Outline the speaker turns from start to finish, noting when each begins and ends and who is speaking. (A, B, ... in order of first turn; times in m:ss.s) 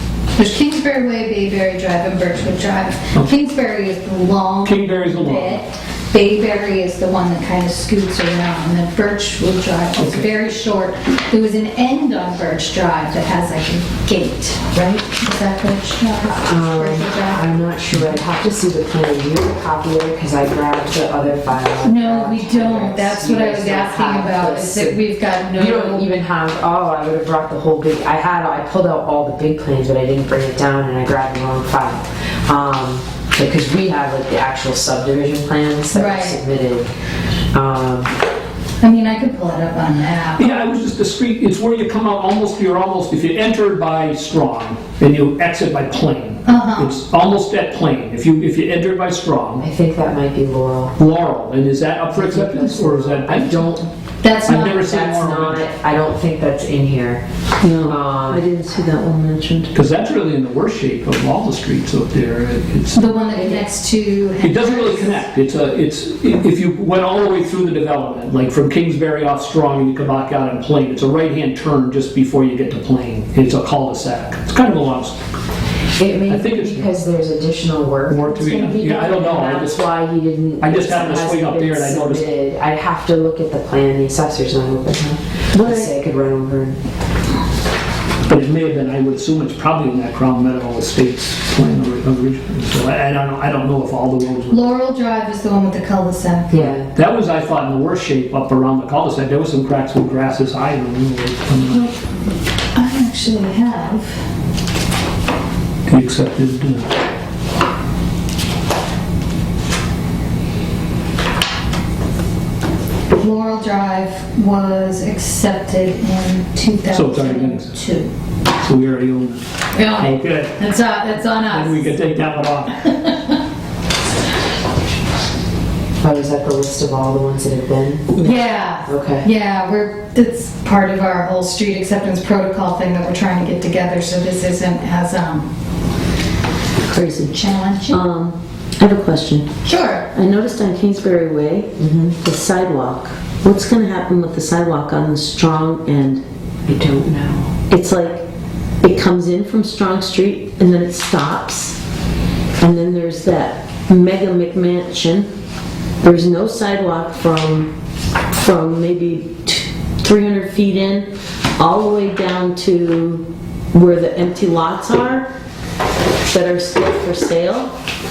0:00.4-0:17.4 A
0:04.6-0:05.6 B
0:10.0-0:10.3 B
0:14.7-0:15.0 C
0:16.4-0:36.9 C
0:21.8-0:26.1 A
0:35.9-0:36.4 A
0:37.5-0:38.1 C
0:38.8-0:40.6 A
0:40.4-0:49.6 B
0:46.4-0:47.0 A
0:49.6-0:51.0 C
0:51.0-0:53.7 B
0:52.2-0:53.9 C
0:54.2-0:54.8 A
0:54.4-0:55.7 B
0:54.7-0:57.2 C
0:57.6-0:59.7 D
0:57.8-0:58.4 C
0:59.7-1:03.2 B
1:02.9-1:05.2 A
1:04.4-1:15.2 B
1:16.0-1:26.8 C
1:16.3-1:16.9 B
1:18.1-1:19.9 B
1:20.6-1:22.3 B
1:25.5-1:25.9 D
1:28.2-1:34.6 B
1:34.5-1:36.6 A
1:36.5-1:36.9 C
1:36.6-1:41.9 B
1:42.7-1:44.2 A
1:45.9-1:46.9 B
1:53.2-1:58.1 A
1:56.9-1:57.7 B
1:58.6-1:59.4 B
1:59.7-2:02.0 A
1:59.9-2:00.5 B
2:01.5-2:02.8 B
2:02.8-2:03.4 A
2:06.0-2:08.2 C
2:08.2-2:15.5 A
2:08.8-2:09.3 C
2:16.9-2:17.4 D
2:17.3-2:18.0 A
2:17.9-2:19.5 D
2:19.6-2:20.1 A
2:20.1-2:26.2 D
2:21.8-2:22.2 C
2:26.7-2:27.6 C
2:27.7-2:28.3 D
2:28.8-2:31.8 D
2:32.6-2:35.3 D
2:36.0-2:37.7 D
2:38.3-2:45.3 D
2:46.3-2:47.7 D